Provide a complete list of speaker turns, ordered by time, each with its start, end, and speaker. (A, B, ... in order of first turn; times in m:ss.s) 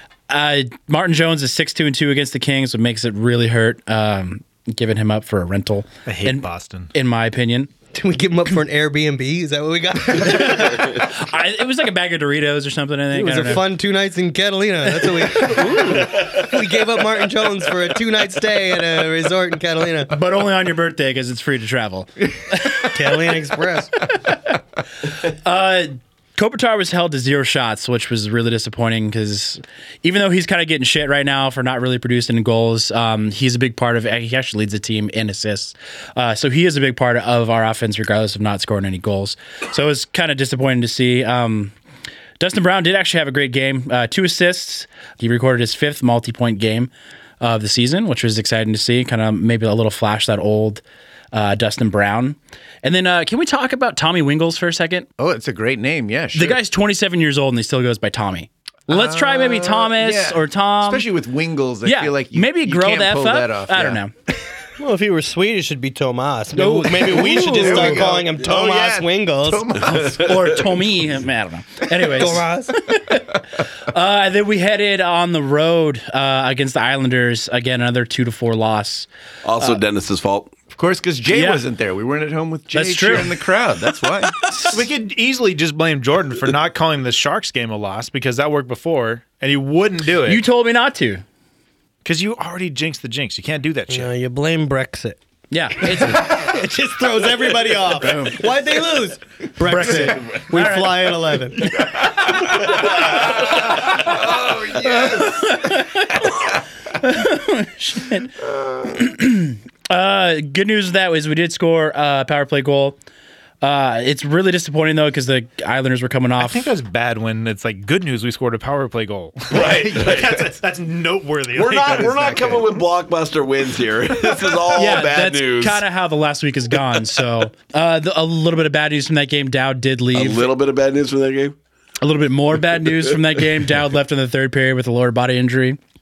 0:00.3-0:07.7 A
0:06.0-0:06.9 B
0:07.9-0:11.0 C
0:10.1-0:13.7 A
0:13.1-0:20.1 C
0:15.4-0:15.9 A
0:20.1-0:23.3 A
0:22.9-0:23.9 C
0:24.1-0:24.5 A
0:25.1-0:41.7 A
0:42.4-0:46.9 A
0:47.4-0:55.1 A
0:55.2-0:56.6 D
0:56.3-1:01.1 A
0:58.9-1:04.0 D
1:01.8-1:04.1 A
1:04.8-1:09.7 C
1:06.5-1:08.0 A
1:07.1-1:10.0 D
1:09.8-1:13.4 A
1:12.1-1:12.7 C
1:13.9-1:19.1 A
1:19.4-1:20.5 E
1:20.7-1:24.3 D
1:21.3-1:21.6 A
1:22.7-1:23.4 A
1:24.5-1:24.8 A
1:24.7-1:30.4 B
1:30.2-1:31.2 A
1:32.0-1:34.1 B
1:33.9-1:35.2 C
1:35.5-1:36.4 A
1:35.8-1:41.7 C
1:39.6-1:41.2 A
1:44.2-1:45.3 D
1:45.1-1:46.5 A
1:47.0-1:48.3 A
1:48.8-1:53.0 A
1:53.6-1:56.7 A
1:56.4-2:02.6 B
1:59.5-2:00.5 E
2:01.5-2:05.8 E
2:04.7-2:10.5 A
2:10.1-2:11.5 E
2:12.0-2:15.8 A